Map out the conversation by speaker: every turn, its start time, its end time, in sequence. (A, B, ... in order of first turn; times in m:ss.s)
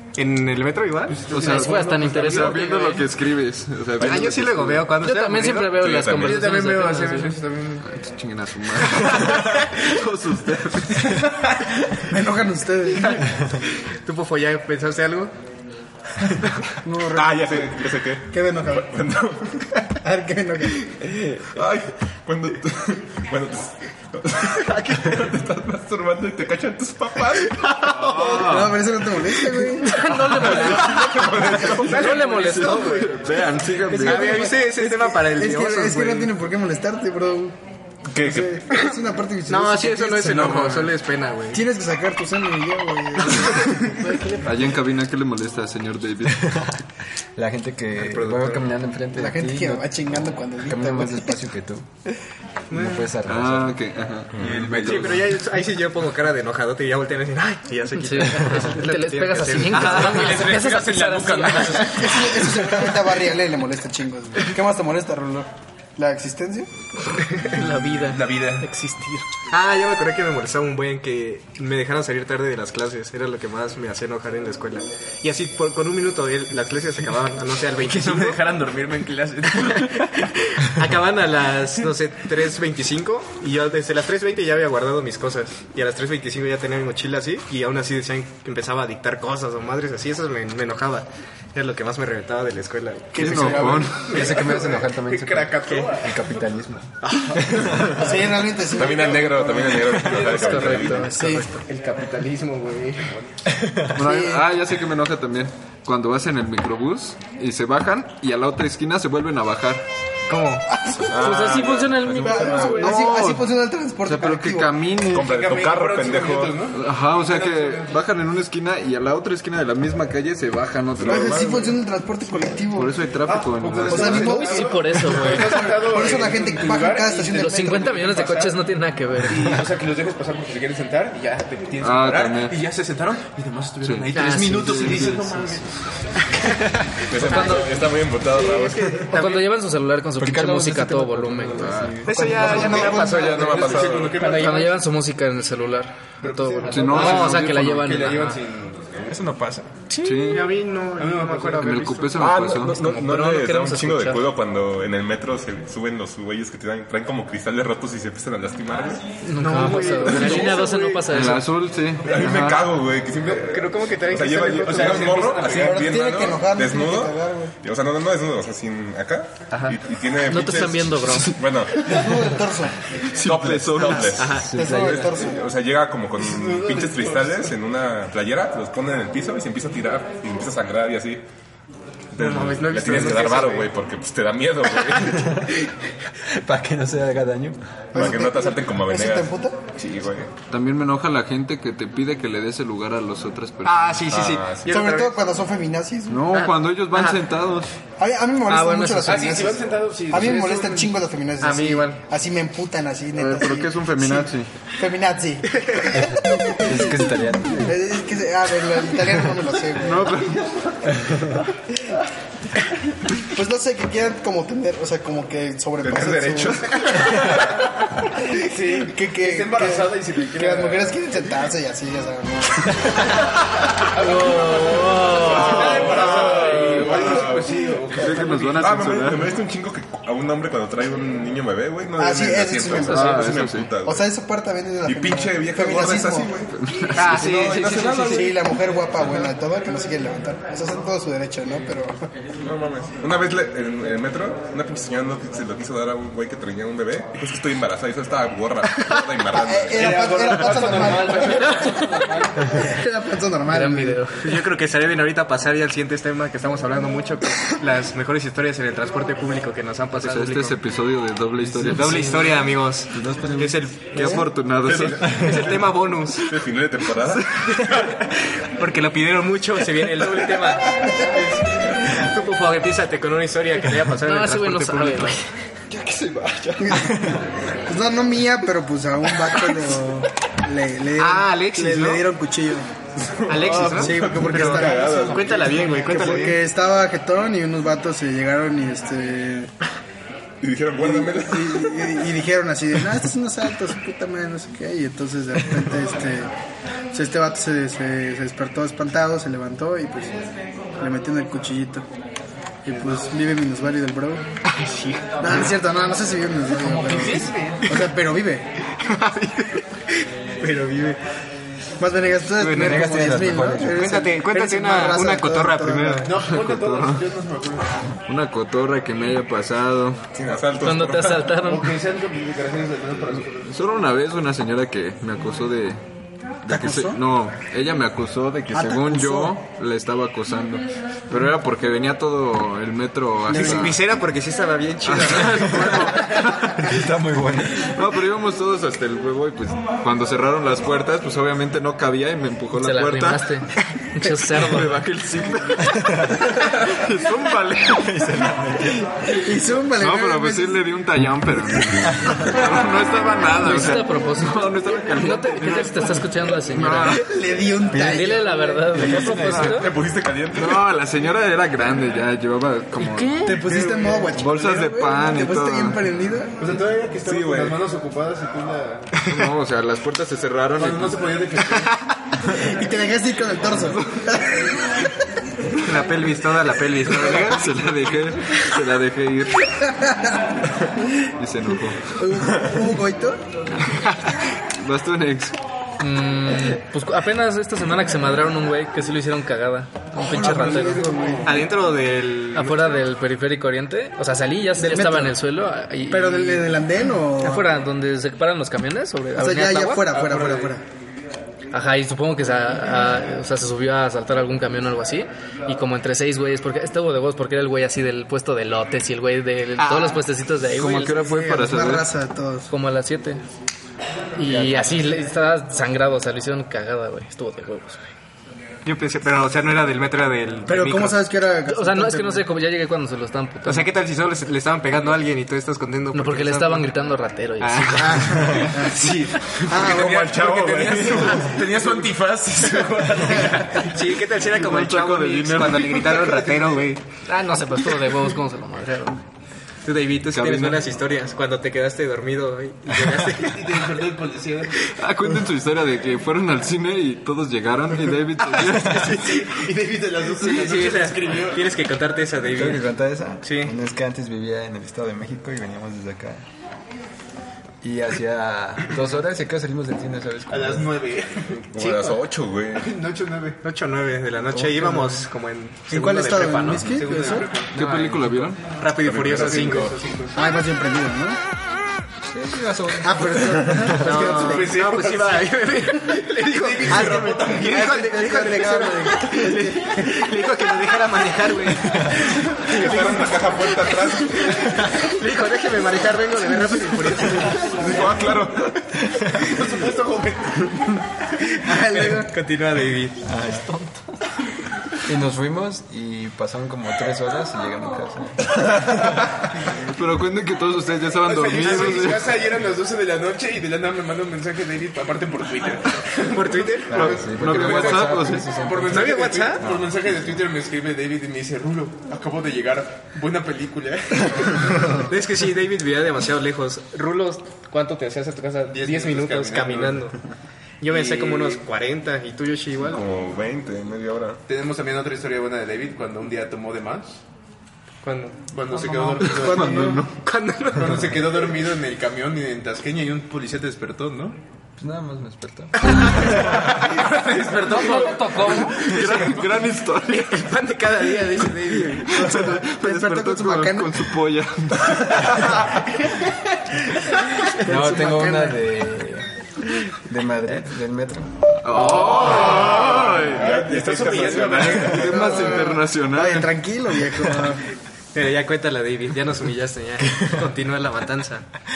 0:00.2-0:01.2 A
0:01.1-0:02.9 B
0:01.3-0:04.9 C
0:01.3-0:03.0 D
0:04.0-0:05.8 A
0:05.0-0:07.4 D
0:05.7-0:06.5 E
0:06.2-0:07.8 B
0:07.8-0:11.2 C
0:12.0-0:13.2 F
0:13.0-0:15.3 A
0:16.2-0:16.7 A
0:16.8-0:19.0 F
0:17.1-0:19.6 E
0:20.0-0:20.8 F
0:21.4-0:27.9 E
0:27.9-0:28.8 C
0:28.1-0:28.5 B
0:28.2-0:30.4 F
0:29.8-0:33.1 D
0:30.3-0:32.0 E
0:31.5-0:33.0 A
0:31.9-0:34.5 C
0:33.8-0:36.3 A
0:33.9-0:37.6 F
0:38.1-0:38.5 E
0:38.2-0:40.9 F
0:39.5-0:41.6 A
0:41.5-0:44.4 F
0:44.4-0:46.6 C
0:46.3-0:46.8 G
0:47.4-0:51.9 G
0:48.2-0:48.6 B
0:49.1-0:51.4 F
0:52.7-0:53.1 A
0:52.7-0:53.8 G
0:53.2-0:55.3 C
0:54.3-0:54.6 E
0:54.5-0:55.0 B
0:54.6-1:00.6 A
0:58.0-1:02.1 D
0:59.7-1:02.2 B
1:02.0-1:06.7 F
1:07.4-1:09.2 D
1:07.4-1:08.7 B
1:09.5-1:18.4 A
1:17.8-1:20.1 B
1:19.5-1:34.6 A
1:33.1-1:34.2 F
1:33.2-1:34.1 C
1:34.0-1:36.9 G
1:34.0-1:36.5 B
1:37.0-1:38.3 B
1:37.5-1:38.0 G
1:37.8-1:40.0 F
1:38.6-1:41.2 E
1:38.9-1:40.9 B
1:40.1-1:41.6 D
1:41.1-1:41.5 F
1:41.3-1:43.2 A
1:43.9-1:49.8 C
1:43.9-1:44.4 F
1:50.3-1:50.6 A
1:50.7-1:51.3 F
1:51.1-1:52.9 E
1:51.1-1:53.0 D
1:52.2-1:54.8 F
1:52.7-1:53.5 C
1:54.0-1:55.4 C
1:55.1-1:56.6 E
1:55.2-1:57.9 B
1:56.7-2:01.7 C
2:01.0-2:01.7 E
2:01.0-2:03.0 F
2:02.7-2:04.4 C
2:03.2-2:08.6 B
2:03.8-2:08.0 F
2:04.2-2:05.7 D
2:07.3-2:09.6 D
2:09.2-2:15.8 B
2:11.8-2:12.6 C
2:13.8-2:15.4 C
2:14.2-2:15.0 D
2:17.0-2:19.0 E
2:17.1-2:17.7 D
2:17.3-2:17.6 A
2:18.3-2:19.5 A
2:19.1-2:21.8 D
2:20.2-2:22.3 G
2:21.6-2:24.8 B
2:22.0-2:24.0 A
2:22.1-2:23.3 F
2:22.4-2:24.2 E
2:24.1-2:28.4 D
2:26.2-2:29.2 B
2:26.6-2:27.9 C
2:29.1-2:29.7 G
2:30.0-2:30.5 C
2:30.0-2:32.3 A
2:31.0-2:31.6 B
2:31.6-2:32.8 C
2:32.2-2:39.0 E
2:32.7-2:34.3 D
2:39.2-2:41.5 D
2:39.4-2:41.0 A
2:40.0-2:40.7 E
2:41.0-2:42.7 C
2:42.0-2:51.9 E
2:43.3-2:45.5 A
2:44.5-2:46.0 B
2:45.5-2:47.5 F
2:50.3-2:51.3 D
2:51.8-2:52.8 F
2:53.1-2:55.0 C
2:53.1-3:01.2 E
2:54.2-2:54.5 A
2:54.3-2:55.4 F
2:54.6-2:54.9 G
2:56.2-2:57.5 B
3:02.1-3:05.4 E
3:02.2-3:03.7 A
3:06.2-3:07.6 G
3:07.9-3:09.7 F
3:07.9-3:10.3 E
3:10.4-3:14.1 C
3:13.6-3:15.2 A
3:14.1-3:14.8 E
3:14.7-3:16.3 F
3:16.1-3:17.7 C
3:16.3-3:17.2 A
3:18.0-3:27.0 F
3:18.5-3:19.3 D
3:19.0-3:21.0 B
3:21.4-3:22.0 A
3:23.2-3:24.5 C
3:25.5-3:26.0 A
3:26.6-3:27.8 G
3:27.6-3:30.2 F
3:29.7-3:30.6 C
3:33.2-3:37.5 F
3:35.8-3:36.6 E
3:36.4-3:37.8 B
3:38.1-3:43.1 F
3:38.4-3:41.0 B
3:43.8-3:48.9 B
3:44.4-3:45.6 D
3:45.3-3:47.5 E
3:46.7-3:47.0 C
3:47.9-3:49.4 C
3:48.6-3:54.1 E
3:52.0-3:53.3 F
3:52.8-3:53.7 C
3:53.8-3:56.3 F
3:54.8-3:58.4 E
3:56.6-3:57.2 C
3:56.9-3:58.4 A
3:58.0-4:02.1 F
4:02.4-4:10.0 E
4:09.3-4:11.8 F
4:09.7-4:12.4 B
4:10.7-4:12.6 D
4:12.4-4:14.0 F
4:13.5-4:14.4 D
4:14.2-4:20.6 A
4:20.0-4:22.4 C
4:21.5-4:22.3 G
4:21.6-4:26.3 A
4:22.9-4:23.5 G
4:23.8-4:25.5 C
4:24.6-4:25.0 E
4:26.2-4:27.8 E
4:27.5-4:31.1 A
4:30.9-4:31.2 F
4:31.8-4:35.2 A
4:34.0-4:35.3 D
4:36.6-4:42.7 F
4:41.0-4:42.0 A
4:43.0-4:46.3 E
4:43.3-4:46.4 A
4:43.5-4:43.8 B
4:43.7-4:49.5 F
4:50.4-4:52.0 E
4:50.8-4:56.3 F
4:56.9-5:00.2 F
5:00.8-5:01.8 F
5:02.6-5:04.2 F
5:04.5-5:05.5 A
5:05.2-5:08.5 F
5:06.6-5:07.6 D
5:06.9-5:07.9 A
5:08.8-5:11.0 A
5:11.8-5:16.1 F
5:12.4-5:16.2 A
5:12.5-5:14.0 G
5:16.0-5:17.9 B
5:16.2-5:17.1 C
5:18.0-5:20.0 C
5:20.1-5:21.3 E
5:20.6-5:21.7 D
5:21.4-5:23.5 B
5:23.4-5:25.8 C
5:26.4-5:33.8 C
5:26.5-5:27.0 F
5:28.5-5:29.4 F
5:33.3-5:36.4 A
5:33.3-5:33.8 F
5:34.8-5:36.6 C
5:36.6-5:37.7 G
5:37.6-5:43.3 C
5:42.6-5:44.8 D
5:44.3-5:48.1 C
5:45.8-5:46.3 G
5:47.7-5:48.9 G
5:49.1-5:50.7 F
5:49.8-5:57.1 C
5:51.8-5:52.3 G
5:53.3-5:57.0 D
5:56.9-5:58.6 F
5:57.7-5:58.1 G
5:57.7-5:59.7 D
5:58.7-5:59.7 C
5:58.8-5:59.5 G
5:59.4-6:00.7 E
6:00.3-6:03.4 C
6:02.8-6:03.5 D
6:03.2-6:06.3 F
6:03.5-6:04.0 B
6:04.1-6:05.8 C
6:06.4-6:09.0 B
6:07.0-6:07.6 E
6:09.0-6:11.1 C
6:09.0-6:09.3 A
6:10.6-6:11.7 B
6:11.5-6:11.8 A
6:12.2-6:14.5 F
6:15.6-6:17.5 A
6:16.9-6:19.5 C
6:19.7-6:20.2 F
6:21.2-6:22.0 C
6:22.0-6:23.2 F
6:23.8-6:24.2 A
6:24.5-6:25.4 C
6:25.8-6:30.9 D
6:30.1-6:31.4 F
6:30.1-6:31.4 B
6:31.2-6:32.8 A
6:32.3-6:36.6 D
6:34.6-6:35.2 F
6:35.9-6:37.5 F
6:37.2-6:39.8 D
6:39.2-6:40.6 F
6:39.9-6:40.6 B
6:41.5-6:51.0 D
6:49.6-6:50.0 A
6:50.4-6:51.9 C
6:50.8-6:52.5 F
6:52.5-6:53.2 D
6:54.2-6:57.9 D
6:54.2-6:54.8 G
6:58.6-7:01.0 A
7:00.5-7:02.3 F
7:01.5-7:03.7 D
7:03.4-7:06.7 A
7:05.9-7:08.4 D
7:07.4-7:08.6 A
7:07.8-7:10.1 F
7:08.6-7:13.9 B
7:09.5-7:11.4 E
7:13.4-7:16.8 A
7:14.4-7:16.0 C
7:16.0-7:16.6 B
7:17.0-7:19.0 D
7:19.6-7:23.8 A
7:20.1-7:20.6 C
7:23.2-7:24.5 B
7:24.8-7:29.1 C
7:28.2-7:29.5 A
7:28.8-7:31.5 B
7:30.0-7:32.6 A
7:32.3-7:36.2 G
7:33.2-7:33.5 A
7:37.6-7:40.7 G
7:40.3-7:41.9 B
7:41.5-7:42.7 E
7:41.6-7:41.9 A
7:42.5-7:43.4 B
7:43.4-7:47.3 A
7:44.4-7:44.6 G
7:45.7-7:47.3 F
7:46.6-7:48.3 B
7:47.5-7:48.4 C
7:48.6-7:49.8 A
7:48.9-7:50.3 B
7:48.9-7:49.6 E
7:50.1-7:51.2 F
7:52.1-7:53.6 G
7:52.8-7:54.6 F
7:53.7-8:07.6 A
7:53.8-7:57.9 B
7:56.7-8:00.1 F
8:02.4-8:03.2 B
8:02.5-8:04.4 E
8:06.4-8:07.3 F
8:07.2-8:07.9 B
8:07.5-8:08.6 E
8:09.1-8:10.8 B
8:11.4-8:12.1 F
8:11.5-8:13.0 A
8:13.0-8:13.5 G
8:13.2-8:13.8 D
8:14.8-8:18.2 G
8:18.9-8:22.1 C
8:21.0-8:34.8 B
8:21.4-8:21.9 A
8:26.1-8:27.0 A
8:26.7-8:28.8 G
8:26.7-8:28.4 C
8:28.7-8:29.4 A
8:29.4-8:30.0 G
8:34.7-8:40.0 A
8:38.5-8:39.9 B
8:40.6-8:42.8 A
8:40.7-8:41.4 B
8:42.6-8:44.2 E
8:44.3-8:47.0 B
8:47.8-8:48.2 A
8:48.3-8:49.8 B
8:49.0-8:49.9 C
8:49.2-8:51.3 A
8:50.5-8:54.2 B
8:54.6-8:55.5 G
8:55.6-8:56.2 A
8:56.1-8:59.4 B
8:57.4-8:58.6 D
8:58.5-9:00.3 C
8:59.8-9:02.2 A
9:01.6-9:05.4 C
9:01.9-9:04.0 F
9:07.3-9:08.4 F
9:07.4-9:09.1 G
9:09.8-9:11.1 G
9:11.4-9:13.3 C
9:11.5-9:15.1 B
9:13.1-9:15.2 E
9:14.5-9:16.4 C
9:14.8-9:17.4 F
9:17.9-9:21.2 A